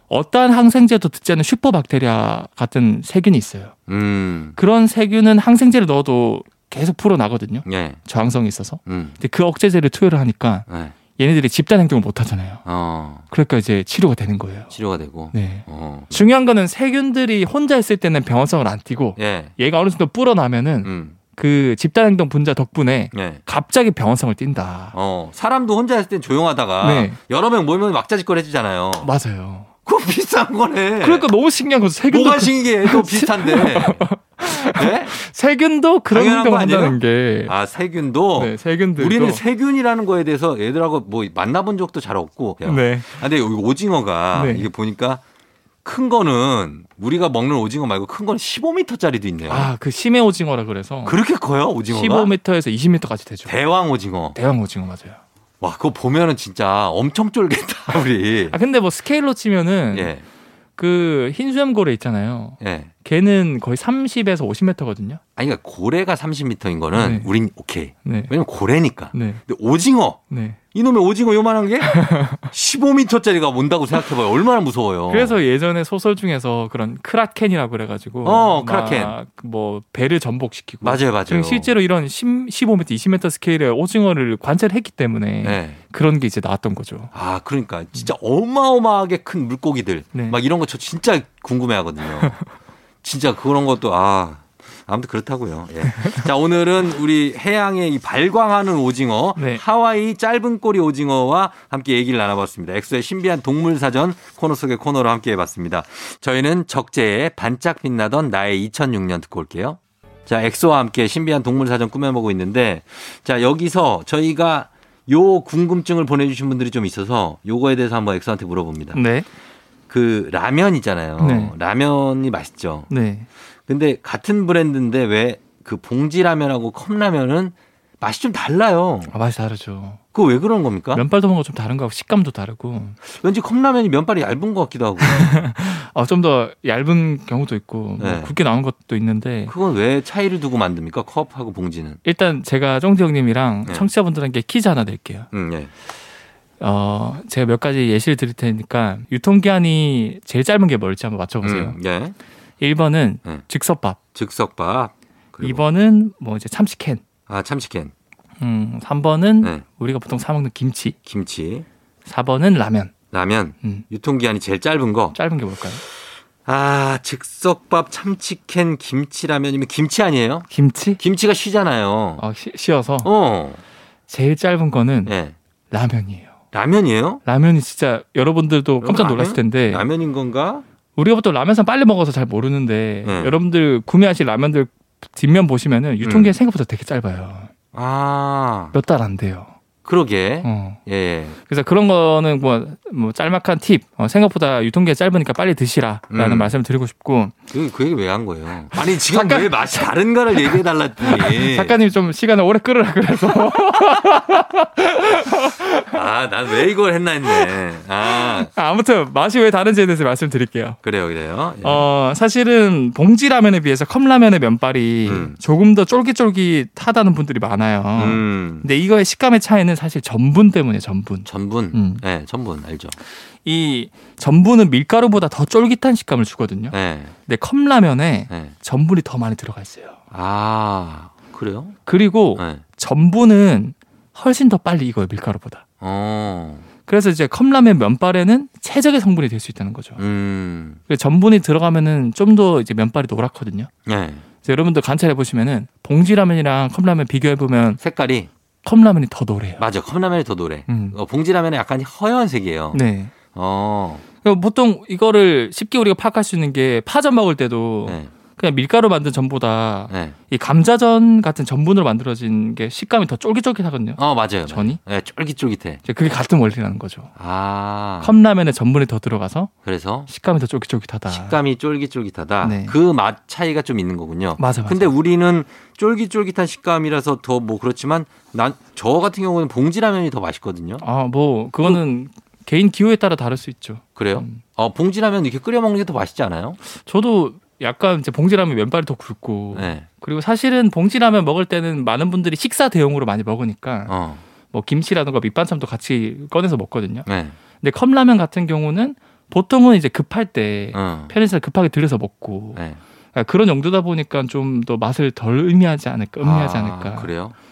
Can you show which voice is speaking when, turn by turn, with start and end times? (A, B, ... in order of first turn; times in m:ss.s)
0:00.1-0:03.8 A
0:03.9-0:04.6 B
0:04.6-0:12.6 A
0:07.6-0:08.0 B
0:08.9-0:09.2 B
0:10.7-0:11.0 B
0:12.6-0:13.2 B
0:13.3-0:14.7 A
0:14.7-0:16.3 B
0:15.3-0:25.0 A
0:19.2-0:19.6 B
0:20.8-0:21.2 B
0:23.1-0:23.4 B
0:24.9-0:29.1 B
0:26.8-0:27.2 A
0:29.0-0:29.7 A
0:29.9-0:31.3 B
0:31.0-0:37.5 A
0:32.1-0:34.1 B
0:34.6-0:35.1 B
0:36.1-0:45.2 B
0:38.4-0:39.4 A
0:42.6-0:43.2 A
0:44.3-0:44.7 A
0:45.8-0:49.7 B
0:49.5-0:51.2 A
0:51.0-0:52.3 B
0:51.9-0:53.5 A
0:53.5-0:54.4 B
0:54.4-0:55.2 A
0:55.6-0:58.6 B
0:58.5-1:00.1 A
0:59.9-1:00.2 B
1:00.8-1:05.2 A
1:02.6-1:02.9 B
1:05.4-1:10.2 B
1:06.9-1:07.3 A
1:08.0-1:08.3 A
1:09.1-1:09.4 A
1:10.3-1:10.6 A
1:10.7-1:15.4 B
1:11.8-1:12.5 A
1:15.1-1:27.1 A
1:18.2-1:19.2 B
1:20.8-1:21.7 B
1:25.4-1:25.8 B
1:27.1-1:32.4 B
1:30.1-1:30.4 A
1:33.0-1:59.0 B
1:35.9-1:36.2 A
1:39.4-1:39.6 A
1:58.9-1:59.3 A
1:59.9-2:02.9 B
2:01.2-2:01.5 A
2:02.9-2:03.3 A
2:03.7-2:09.1 B
2:09.1-2:10.0 A
2:10.1-2:11.0 B
2:10.9-2:13.0 A
2:13.0-2:15.4 B
2:15.0-2:19.5 A
2:18.0-2:18.3 B
2:19.5-2:22.0 B
2:22.0-2:25.3 A
2:25.3-2:25.7 B
2:26.6-2:31.8 A
2:31.4-2:32.2 B
2:32.6-2:34.0 A
2:34.2-2:35.6 B
2:35.4-2:37.0 A
2:37.3-2:37.9 B
2:38.4-2:41.0 A
2:41.1-2:41.6 B
2:42.0-2:42.9 A
2:43.1-2:45.2 B
2:45.1-2:45.8 A
2:45.9-2:50.5 B
2:50.5-2:51.0 A
2:51.0-2:52.2 B
2:52.2-2:53.1 A
2:53.0-2:53.6 B
2:54.1-2:55.1 A
2:55.1-2:55.4 B
2:55.7-2:56.4 A
2:56.5-2:57.2 B
2:57.2-2:59.8 A
2:58.8-3:00.6 B
3:01.0-3:07.5 A
3:03.0-3:03.4 B
3:06.0-3:06.4 B
3:07.7-3:08.8 B
3:08.7-3:09.5 A
3:09.8-3:11.4 B
3:10.4-3:10.8 A
3:11.5-3:17.4 A
3:16.1-3:16.5 B
3:17.5-3:21.8 B
3:18.7-3:26.0 A
3:25.9-3:28.5 B
3:28.0-3:30.8 A
3:30.8-3:31.9 B
3:31.6-3:42.0 A
3:35.1-3:35.4 B
3:38.0-3:38.7 B
3:41.3-3:43.0 B
3:43.4-3:46.8 A
3:46.7-3:47.1 B
3:47.3-3:50.0 A
3:50.1-3:51.8 B
3:51.9-3:55.6 A
3:52.4-3:52.6 B
3:55.8-3:56.7 B
3:56.9-4:00.0 A
4:00.0-4:00.8 B
4:00.9-4:03.7 A
4:03.9-4:04.2 B
4:04.4-4:07.8 A
4:07.8-4:08.3 B
4:08.6-4:09.6 A
4:09.6-4:12.8 B
4:10.7-4:11.0 A
4:12.7-4:13.1 A
4:13.3-4:14.0 B
4:14.2-4:24.8 A
4:17.9-4:18.1 B
4:19.9-4:20.2 B
4:24.0-4:25.8 B
4:25.8-4:27.1 A
4:27.2-4:28.2 B
4:28.0-4:29.5 A
4:29.6-4:30.1 B
4:30.1-4:31.4 A
4:31.1-4:40.8 B
4:32.4-4:32.8 A
4:34.4-4:34.9 A
4:40.8-4:44.4 A
4:44.0-4:46.6 B
4:46.7-4:53.9 A
4:49.5-4:49.9 B
4:53.9-4:54.2 B
4:54.5-4:57.1 A
4:57.1-4:57.4 B
4:57.6-5:02.6 A
5:00.7-5:01.1 B
5:03.1-5:07.1 A
5:06.2-5:07.4 B